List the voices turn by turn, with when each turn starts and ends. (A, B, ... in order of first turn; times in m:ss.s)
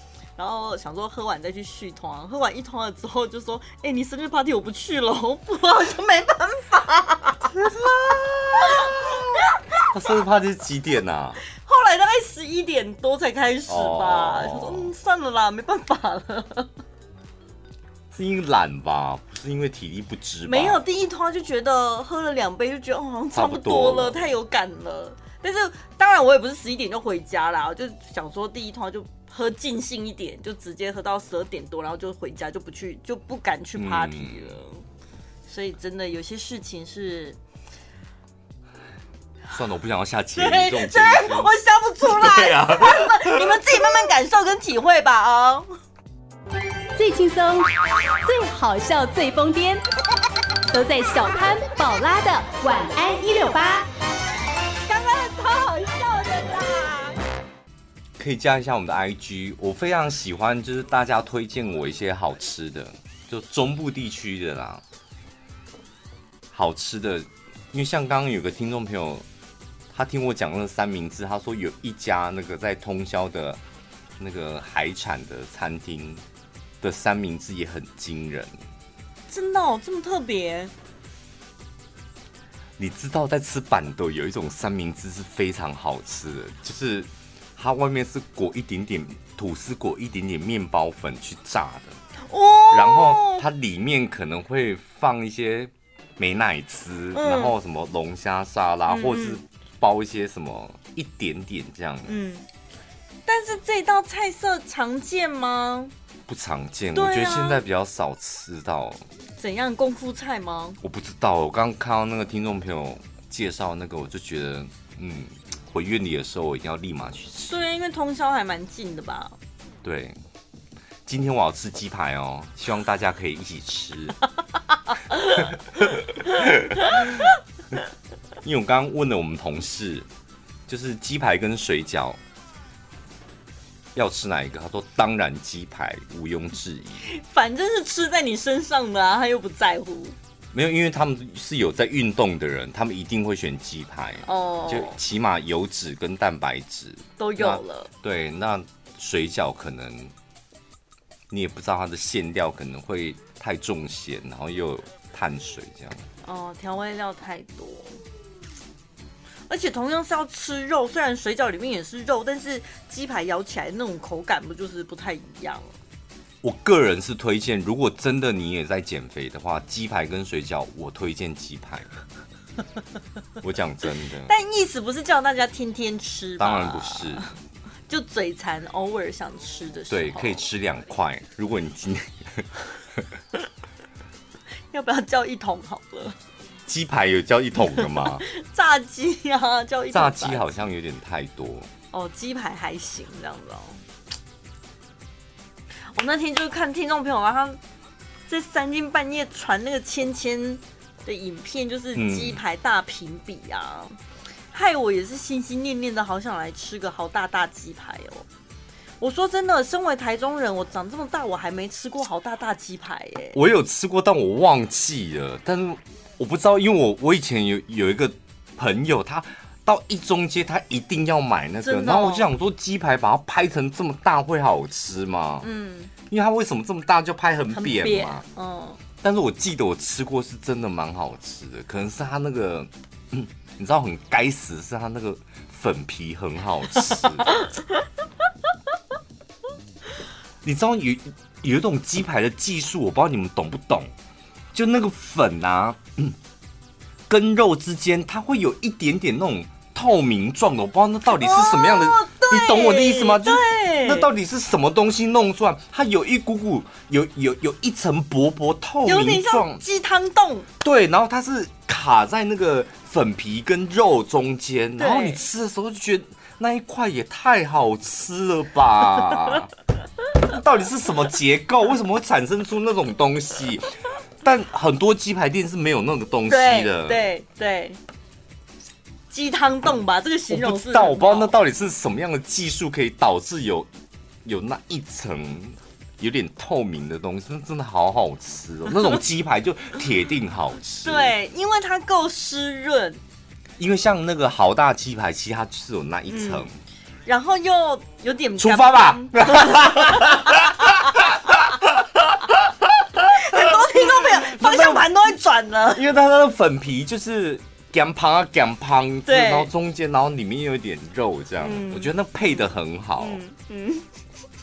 0:00.4-0:09.8 A
0:07.6-0:09.2 B
0:09.9-0:11.4 B
0:11.5-0:16.7 A
0:13.7-0:14.9 B
0:18.1-0:20.8 B
0:20.4-0:34.8 A
0:23.3-0:24.2 B
0:33.8-0:34.6 B
0:35.5-0:37.4 A
0:39.5-0:41.5 B
0:40.4-0:45.7 A
0:42.0-0:44.0 B
0:47.0-0:49.8 C
0:50.7-0:53.9 C
0:54.8-0:57.2 A
0:58.2-1:04.8 B
1:06.5-1:09.2 B
1:09.9-1:13.6 B
1:14.2-1:16.2 B
1:16.8-1:18.5 B
1:19.3-1:20.7 A
1:22.8-1:32.0 B
1:32.2-1:33.4 A
1:32.7-1:42.2 B
1:37.1-1:37.5 A
1:38.9-1:39.4 A
1:42.1-1:42.4 A
1:43.3-1:45.9 A
1:46.3-1:49.0 B
1:46.9-1:47.6 A
1:49.4-1:50.8 A
1:50.8-1:57.6 B
1:57.5-1:59.4 A
1:59.8-2:00.2 B
2:01.0-2:04.2 B
2:05.4-2:07.3 B
2:08.4-2:10.1 B
2:10.7-2:12.2 B
2:13.9-2:17.1 B
2:17.0-2:20.1 A
2:20.5-2:30.1 B
2:24.2-2:25.0 A
2:27.2-2:27.9 A
2:31.3-2:36.0 B
2:36.2-2:38.0 A
2:39.5-2:45.7 A
2:46.4-2:51.9 B
2:53.4-2:54.3 B
2:54.3-2:57.3 A
2:56.4-2:57.3 B
2:57.9-3:00.5 A
2:59.9-3:03.0 B
3:04.7-3:06.2 A
3:06.7-3:08.2 B
3:07.7-3:10.5 A
3:09.9-3:11.7 B
3:11.9-3:13.8 A
3:15.9-3:17.6 A
3:18.3-3:24.0 A
3:21.9-3:22.4 B
3:24.5-3:28.2 A
3:29.0-3:33.4 A
3:33.3-3:45.5 B
3:41.6-3:42.3 A
3:45.4-3:45.9 A
3:46.1-3:48.2 B
3:47.5-3:48.8 A
3:49.0-3:57.3 B
4:00.4-4:03.9 B
4:04.5-4:06.2 B
4:07.1-4:19.6 B
4:11.1-4:14.1 A
4:18.8-4:20.5 A
4:20.6-4:29.5 B
4:24.8-4:25.2 A
4:30.2-4:37.0 B
4:36.3-4:37.8 A
4:39.1-4:41.3 A
4:40.3-4:43.7 B
4:44.2-4:51.1 B
4:50.8-4:53.0 A
4:53.6-4:56.5 B
4:56.1-4:56.5 A
4:57.0-5:00.5 A
4:58.4-5:04.8 B
5:03.1-5:05.8 A
5:05.7-5:13.2 B
5:09.0-5:09.5 A
5:11.4-5:13.8 A